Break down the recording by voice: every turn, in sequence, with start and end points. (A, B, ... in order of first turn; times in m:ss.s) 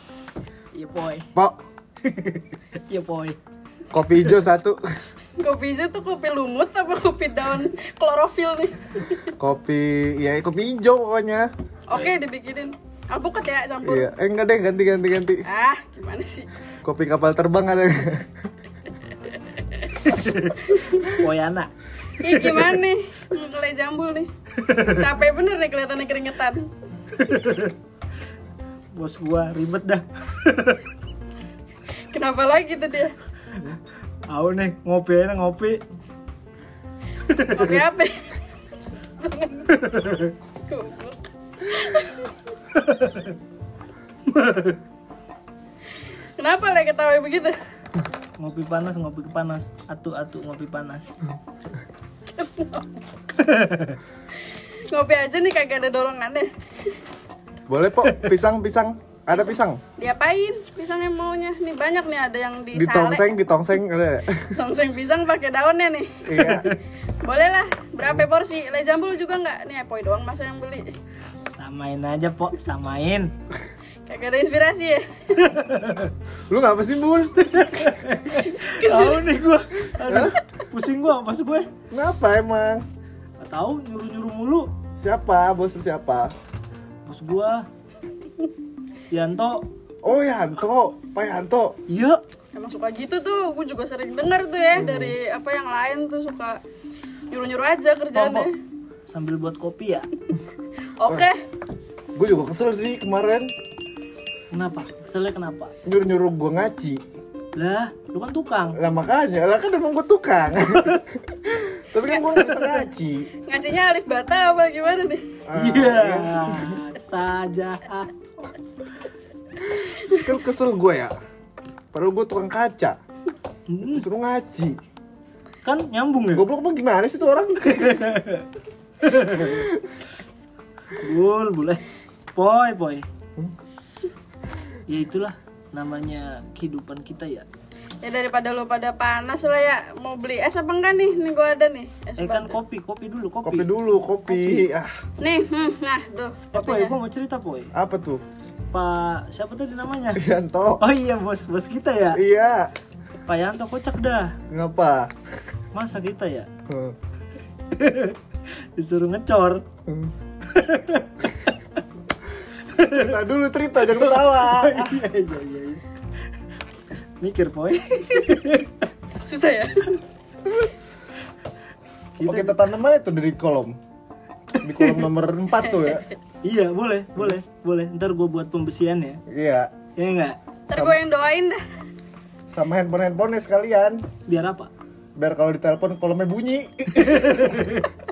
0:00.7-0:01.3 A
0:02.0-0:03.4 A
0:03.9-0:04.8 B
0:05.4-0:09.3 C
0:09.4-0:11.5 B
0:11.9-0:14.1 C
0:13.8-0:15.4 B
0:15.5-0:16.5 C
0:16.8-0:18.3 B
0:20.0-0:21.7 A
0:20.6-0:21.2 C
0:22.2-0:24.3 C
0:22.3-0:22.7 A
0:24.8-0:26.7 C
0:27.1-0:27.7 A
0:28.9-0:30.8 A
0:32.1-0:33.1 C
0:34.3-0:35.8 A
0:37.3-0:37.7 A
0:37.4-0:38.3 C
0:39.2-0:39.8 C
0:39.8-0:40.3 A
0:40.7-0:42.3 C
0:42.7-0:43.3 A
0:44.3-0:44.8 A
0:46.4-0:47.5 C
0:48.4-0:51.2 A
0:52.4-0:52.8 C
0:53.4-0:54.0 A
0:54.5-0:56.5 C
0:57.7-0:59.8 B
0:59.3-1:03.3 C
1:02.7-1:04.5 B
1:04.5-1:10.9 C
1:06.2-1:06.7 B
1:11.4-1:13.3 A
1:14.1-1:15.0 C
1:15.4-1:16.1 A
1:16.5-1:17.9 B
1:17.6-1:21.7 A
1:18.4-1:19.2 C
1:20.0-1:20.4 B
1:21.9-1:22.8 B
1:23.4-1:24.7 A
1:25.0-1:26.3 B
1:27.0-1:27.6 A
1:29.1-1:29.6 A
1:30.0-1:31.8 B
1:31.9-1:32.2 A
1:32.5-1:36.6 C
1:34.7-1:35.2 B
1:37.3-1:38.5 C
1:38.1-1:38.5 A
1:39.1-1:40.1 A
1:41.0-1:41.4 C
1:42.2-1:43.5 B
1:44.5-1:45.7 A
1:45.8-1:47.0 B
1:47.5-1:48.8 A
1:48.8-1:53.3 B
1:52.0-1:52.6 C
1:53.4-1:55.2 C
1:55.5-1:56.8 B
1:55.5-1:58.5 A
1:59.8-2:00.3 C
2:00.0-2:01.1 B
2:01.9-2:03.0 B
2:03.7-2:04.0 A
2:03.8-2:04.8 B
2:05.6-2:06.4 A
2:06.3-2:08.1 B
2:07.8-2:08.4 A
2:09.0-2:09.6 A
2:09.4-2:09.8 B
2:11.0-2:11.8 A
2:12.3-2:13.0 A
2:14.9-2:17.5 A
2:18.0-2:22.6 C
2:22.2-2:23.7 A
2:23.4-2:24.9 B
2:24.3-2:24.7 A
2:25.2-2:27.0 C
2:26.5-2:27.7 A
2:27.7-2:28.2 B
2:28.7-2:30.2 A
2:30.2-2:30.8 B
2:30.8-2:32.2 A
2:32.1-2:32.7 B
2:33.2-2:34.4 A
2:34.5-2:35.1 B
2:35.7-2:36.5 A
2:36.7-2:37.0 B
2:37.7-2:38.2 A
2:38.8-2:39.6 A
2:39.9-2:40.1 B
2:40.5-2:41.5 A
2:42.7-2:43.1 A
2:42.8-2:45.0 B
2:43.9-2:45.8 A
2:47.2-2:48.8 A
2:49.2-2:50.0 C
2:52.2-2:52.6 A
2:52.2-2:53.8 B
2:54.6-2:56.0 B
2:54.6-2:55.1 A
2:56.4-2:59.2 A
2:59.3-2:59.7 B
3:00.0-3:00.4 A
3:00.7-3:01.6 C
3:00.7-3:01.0 B
3:02.5-3:04.0 B
3:04.3-3:04.7 A
3:05.2-3:07.5 B
3:07.0-3:07.9 A